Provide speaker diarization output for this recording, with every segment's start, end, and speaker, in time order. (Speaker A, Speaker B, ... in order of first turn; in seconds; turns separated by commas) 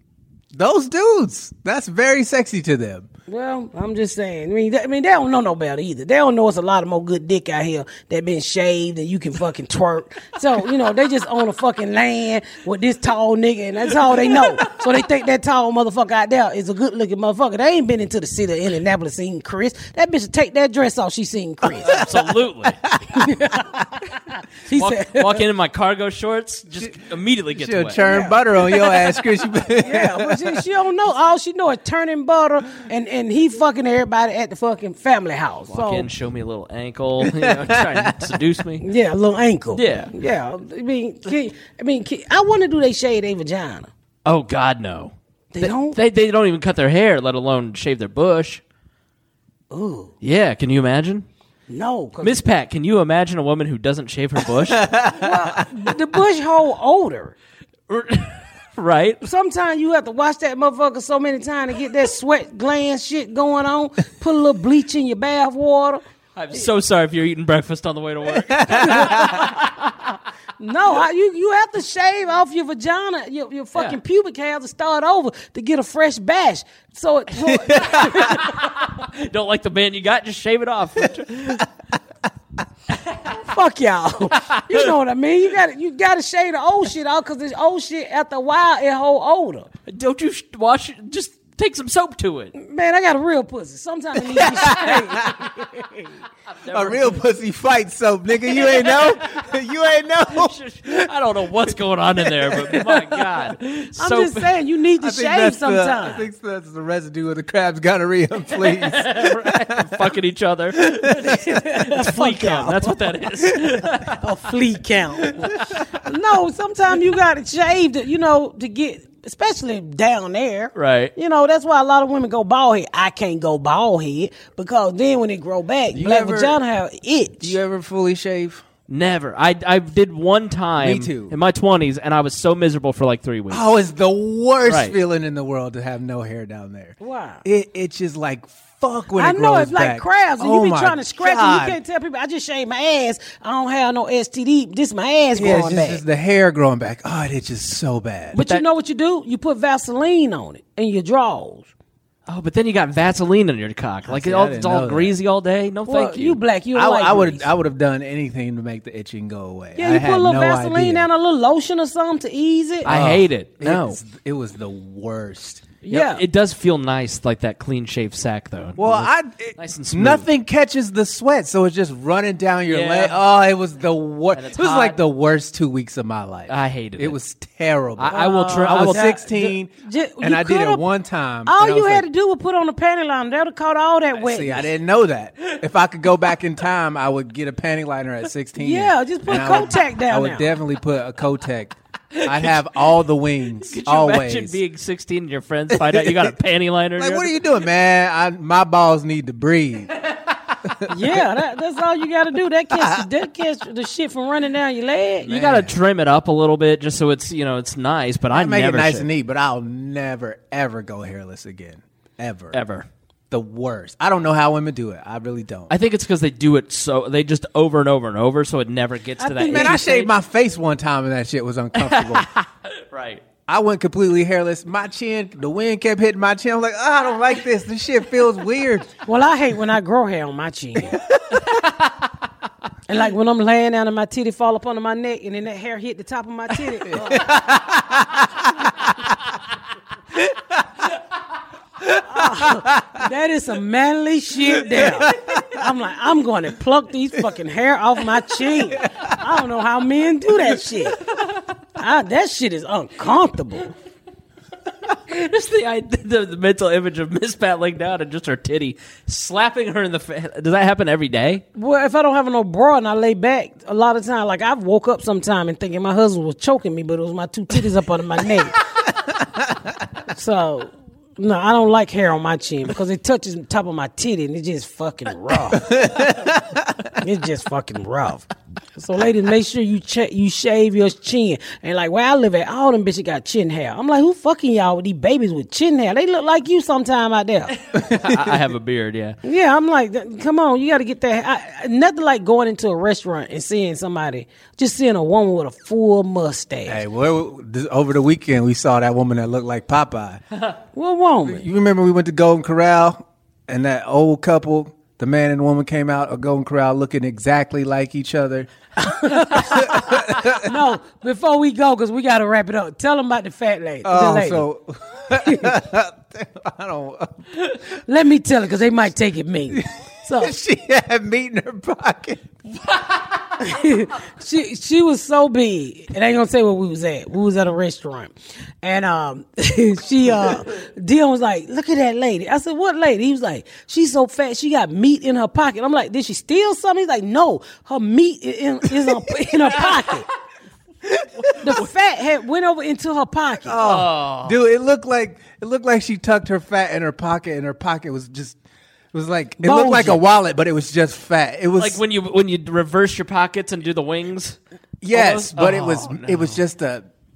Speaker A: 0.5-3.1, Speaker B: 3.3-22.0, Speaker C: 14.2-14.8, Speaker A: 21.8-22.3, Speaker C: 21.8-22.8, Speaker A: 22.8-23.4, Speaker B: 23.1-23.8, Speaker B: 24.6-25.4, Speaker C: 24.7-28.0, Speaker A: 27.6-30.6, Speaker B: 28.0-29.1, Speaker B: 29.8-36.1, Speaker C: 35.7-38.8, Speaker A: 37.2-38.4, Speaker B: 38.8-43.9, Speaker C: 39.7-40.1, Speaker C: 44.2-48.6, Speaker B: 45.5-46.0, Speaker B: 49.7-50.1, Speaker C: 50.2-51.2, Speaker B: 51.7-52.4, Speaker C: 52.2-54.8, Speaker A: 54.6-55.7, Speaker B: 55.1-57.3, Speaker C: 57.9-59.2, Speaker B: 59.2-66.0, Speaker C: 66.3-70.1, Speaker A: 68.6-69.4, Speaker B: 68.8-69.2, Speaker B: 70.6-78.6, Speaker A: 77.5-78.4, Speaker C: 78.2-81.7, Speaker B: 83.2-89.7, Speaker C: 84.3-84.8, Speaker C: 89.9-92.5, Speaker B: 92.5-96.1, Speaker A: 94.2-95.5, Speaker C: 96.5-97.2, Speaker A: 96.7-101.1, Speaker C: 98.5-99.2, Speaker C: 100.3-104.5, Speaker B: 102.8-103.2, Speaker B: 104.0-106.3, Speaker A: 105.0-110.1, Speaker C: 108.6-114.2, Speaker A: 110.8-111.4, Speaker B: 111.2-127.5, Speaker A: 115.2-115.8, Speaker C: 120.8-121.1, Speaker A: 125.9-126.6, Speaker A: 127.4-128.6, Speaker C: 128.9-133.7, Speaker A: 130.8-131.3, Speaker A: 133.5-141.8, Speaker C: 134.6-134.9, Speaker B: 137.0-137.4, Speaker B: 139.1-146.0, Speaker A: 145.3-148.3, Speaker B: 148.3-151.7, Speaker C: 148.3-148.6, Speaker C: 152.3-156.4, Speaker A: 154.1-155.1, Speaker B: 155.8-157.5, Speaker A: 156.7-161.1, Speaker B: 159.8-162.9, Speaker C: 162.8-164.0, Speaker A: 162.8-165.7, Speaker B: 165.8-166.2, Speaker C: 165.9-170.2, Speaker A: 168.8-182.0, Speaker C: 172.7-173.1, Speaker C: 174.3-175.0, Speaker C: 176.5-177.2, Speaker C: 178.0-179.1, Speaker B: 178.1-180.8, Speaker B: 181.4-184.7, Speaker A: 184.2-194.6, Speaker B: 188.6-190.5, Speaker C: 192.1-192.6, Speaker C: 193.6-197.3, Speaker A: 195.7-196.3, Speaker A: 197.0-200.0, Speaker A: 200.6-201.2, Speaker B: 200.9-205.3, Speaker A: 202.7-203.1, Speaker C: 205.2-209.1, Speaker A: 205.3-205.7, Speaker A: 208.3-212.6, Speaker C: 212.5-212.9, Speaker A: 213.3-215.7, Speaker C: 215.7-220.0, Speaker B: 219.2-220.1, Speaker A: 219.5-222.3, Speaker C: 221.8-223.2, Speaker A: 223.5-228.9, Speaker B: 229.1-231.0, Speaker A: 230.9-231.4, Speaker C: 231.3-232.0, Speaker B: 232.9-237.5, Speaker A: 236.9-239.1, Speaker A: 240.1-240.6, Speaker A: 241.8-243.0, Speaker B: 242.1-251.0, Speaker A: 244.5-245.6, Speaker A: 248.7-249.2, Speaker B: 251.8-253.7, Speaker C: 255.1-261.4, Speaker B: 261.5-268.6, Speaker B: 270.1-275.7, Speaker A: 275.5-277.0, Speaker B: 277.0-287.5, Speaker C: 287.7-289.2, Speaker A: 287.8-288.4, Speaker B: 289.2-296.8, Speaker A: 296.7-300.2, Speaker B: 300.7-301.4, Speaker A: 301.2-310.5, Speaker B: 308.8-314.4, Speaker A: 313.8-317.3, Speaker B: 317.7-320.3, Speaker A: 320.2-322.4, Speaker B: 323.4-340.1, Speaker A: 340.9-341.5, Speaker B: 341.4-343.6, Speaker A: 343.4-348.4, Speaker C: 343.6-344.4, Speaker A: 348.9-351.8, Speaker B: 349.4-350.0, Speaker C: 351.6-354.4, Speaker A: 354.8-356.9, Speaker C: 354.9-356.4